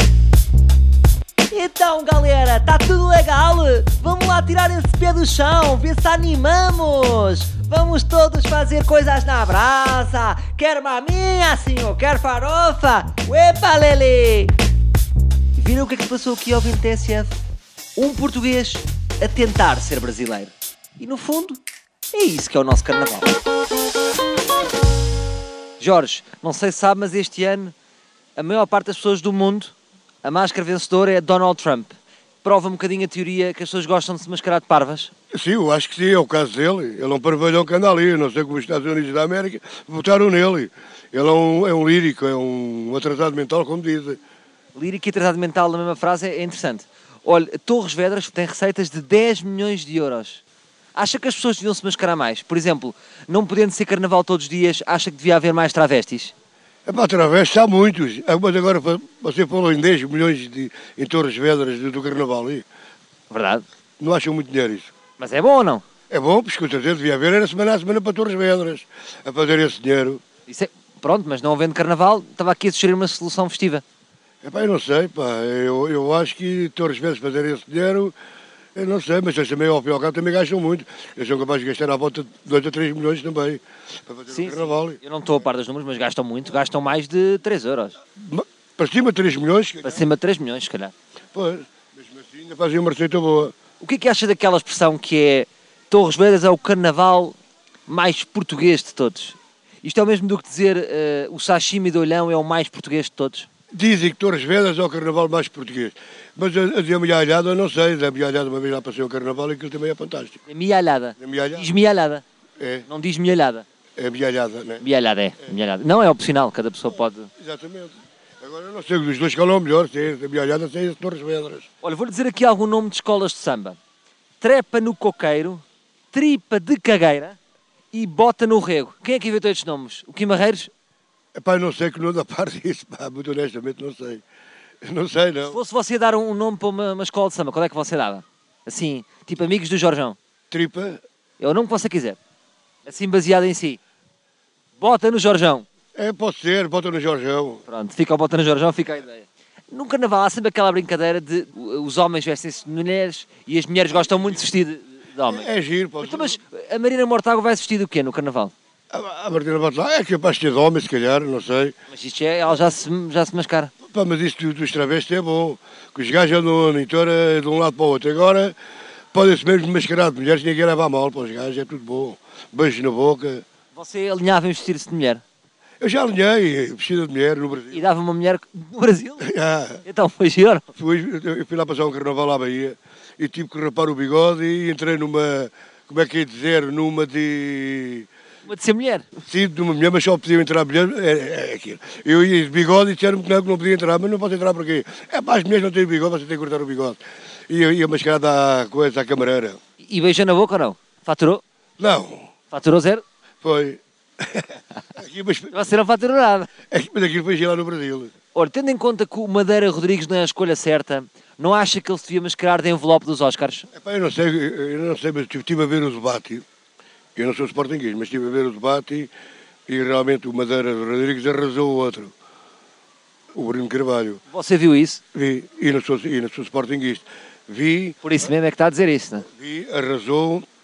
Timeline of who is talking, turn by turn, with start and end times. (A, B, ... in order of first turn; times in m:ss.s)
0:01.5-0:14.6 A
0:15.6-0:17.4 A
0:18.0-0:21.6 A
0:22.1-0:23.3 A
0:25.8-0:27.7 A
0:28.4-0:35.1 A
0:35.3-0:44.2 B
0:44.8-0:50.4 A
0:51.0-0:56.3 A
0:56.9-1:02.7 B
1:03.3-1:03.6 A
1:04.0-1:04.9 B
1:05.2-1:05.8 A
1:06.1-1:10.2 B
1:10.5-1:13.8 A
1:14.4-1:18.1 B
1:18.8-1:25.0 B
1:24.3-1:28.0 A
1:28.2-1:30.1 B
1:29.8-1:30.9 A
1:31.3-1:33.6 B
1:33.8-1:37.4 A
1:37.9-1:43.5 A
1:43.7-1:50.4 B
1:50.5-1:52.2 A
1:51.2-1:51.7 B
1:52.6-1:52.9 B
1:52.9-1:53.6 A
1:54.0-1:54.8 B
1:54.8-1:57.3 A
1:57.4-2:01.7 B
2:01.8-2:03.8 A
2:04.4-2:07.4 A
2:07.9-2:10.7 A
2:11.3-2:14.2 B
2:14.8-2:15.6 B
2:15.5-2:20.2 A
2:20.5-2:21.0 B
2:21.4-2:22.2 A
2:22.9-2:23.8 A
2:24.8-2:25.7 A
2:26.0-2:27.6 B
2:27.7-2:35.5 A
2:35.2-2:36.4 B
2:36.0-2:38.5 A
2:38.9-2:41.8 B
2:41.9-2:43.7 A
2:43.9-2:48.5 B
2:49.1-2:53.4 B
2:53.8-2:55.2 A
2:55.8-2:57.8 B
2:57.7-2:59.3 A
2:59.2-2:59.8 B
2:59.9-3:00.7 A
3:00.8-3:08.1 B
3:08.5-3:09.1 A
3:09.2-3:19.6 B
3:19.8-3:21.4 A
3:21.8-3:22.3 B
3:22.5-3:23.0 A
3:23.4-3:25.5 B
3:25.5-3:26.5 A
3:26.7-3:28.1 B
3:28.4-3:33.7 A
3:33.7-3:36.4 B
3:37.2-3:39.1 B
3:39.7-3:42.1 B
3:43.3-3:44.2 B
3:44.3-3:45.0 A
3:45.1-3:48.0 B
3:48.0-3:49.3 A
3:49.3-3:50.4 B